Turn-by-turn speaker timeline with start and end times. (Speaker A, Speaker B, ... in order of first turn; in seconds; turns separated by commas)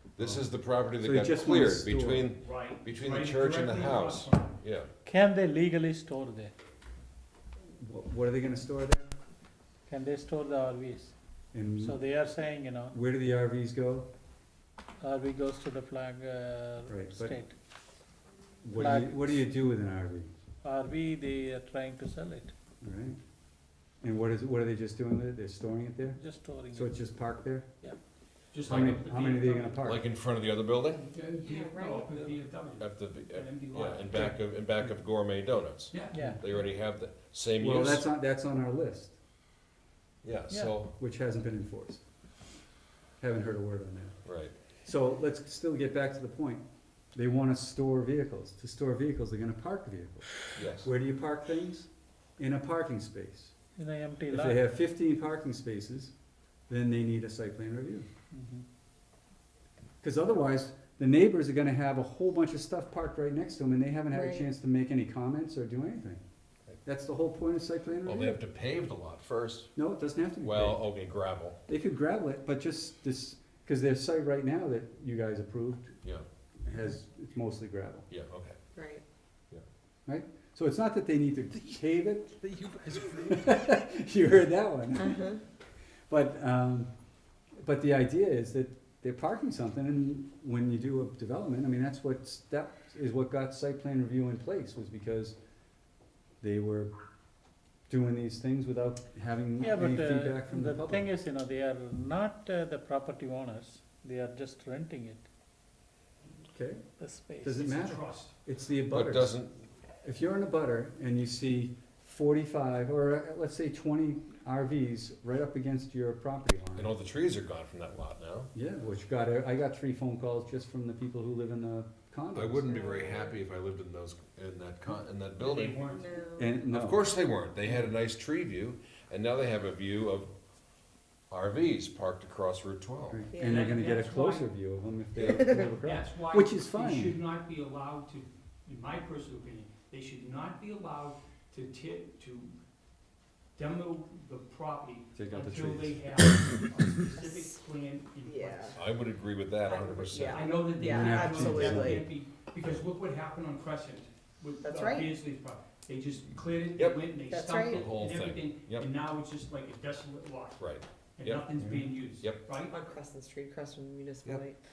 Speaker A: 0.1-4.9, Speaker B: 0.2-0.5, Speaker B: 1.0-2.3, Speaker C: 2.4-4.6, Speaker D: 5.0-6.5, Speaker B: 7.7-9.1, Speaker D: 9.9-11.1, Speaker B: 11.5-12.0, Speaker D: 11.8-12.9, Speaker B: 12.9-14.1, Speaker D: 15.0-17.5, Speaker B: 16.9-17.4, Speaker B: 18.6-20.3, Speaker D: 18.8-19.4, Speaker D: 20.6-22.5, Speaker B: 22.8-23.2, Speaker B: 24.0-26.2, Speaker D: 26.1-27.0, Speaker B: 26.7-27.7, Speaker C: 28.5-29.8, Speaker A: 28.6-29.0, Speaker B: 28.6-30.0, Speaker A: 29.8-31.1, Speaker C: 31.0-34.3, Speaker E: 31.4-32.1, Speaker A: 32.8-38.0, Speaker C: 35.9-36.3, Speaker D: 36.1-36.4, Speaker B: 37.6-39.1, Speaker A: 40.2-40.9, Speaker D: 40.5-40.7, Speaker B: 40.9-42.0, Speaker B: 43.2-44.2, Speaker A: 44.2-44.5, Speaker B: 44.8-46.6, Speaker B: 47.1-53.5, Speaker A: 50.5-50.9, Speaker D: 53.8-54.6, Speaker B: 54.3-56.1, Speaker B: 56.7-58.1, Speaker D: 58.3-58.6, Speaker B: 60.0-66.2, Speaker E: 64.1-64.5, Speaker B: 66.8-68.4, Speaker A: 68.0-69.7, Speaker B: 69.8-70.8, Speaker A: 70.4-71.6, Speaker B: 71.7-76.0, Speaker B: 76.6-78.1, Speaker A: 78.1-78.6, Speaker E: 78.8-79.0, Speaker B: 80.1-82.5, Speaker D: 82.4-83.5, Speaker B: 83.1-85.3, Speaker E: 84.9-85.4, Speaker B: 86.1-86.9, Speaker B: 87.6-95.3, Speaker B: 96.4-96.9, Speaker B: 97.9-101.1, Speaker D: 99.6-105.2, Speaker B: 106.5-106.8, Speaker D: 107.0-107.5, Speaker B: 107.4-109.4, Speaker C: 107.5-108.3, Speaker A: 108.9-109.6, Speaker B: 110.0-116.9, Speaker A: 116.8-118.5, Speaker B: 118.5-122.8, Speaker A: 122.3-125.8, Speaker E: 122.8-123.2, Speaker C: 125.4-126.3, Speaker E: 125.9-126.5, Speaker B: 126.4-127.0, Speaker A: 126.7-130.3, Speaker A: 131.3-133.2, Speaker B: 133.1-137.2, Speaker E: 133.3-133.7, Speaker C: 133.4-134.5, Speaker A: 135.2-135.5, Speaker C: 135.7-142.5, Speaker C: 143.6-148.9, Speaker B: 145.2-146.1, Speaker E: 147.2-147.5, Speaker E: 148.2-148.8, Speaker A: 148.7-150.5, Speaker E: 149.6-152.1, Speaker C: 150.2-160.6, Speaker B: 150.7-152.1, Speaker E: 154.6-155.1, Speaker A: 156.8-157.0, Speaker E: 157.3-157.9, Speaker A: 157.6-158.9, Speaker A: 160.6-161.4, Speaker C: 161.2-162.8, Speaker B: 161.6-161.9, Speaker E: 162.7-164.6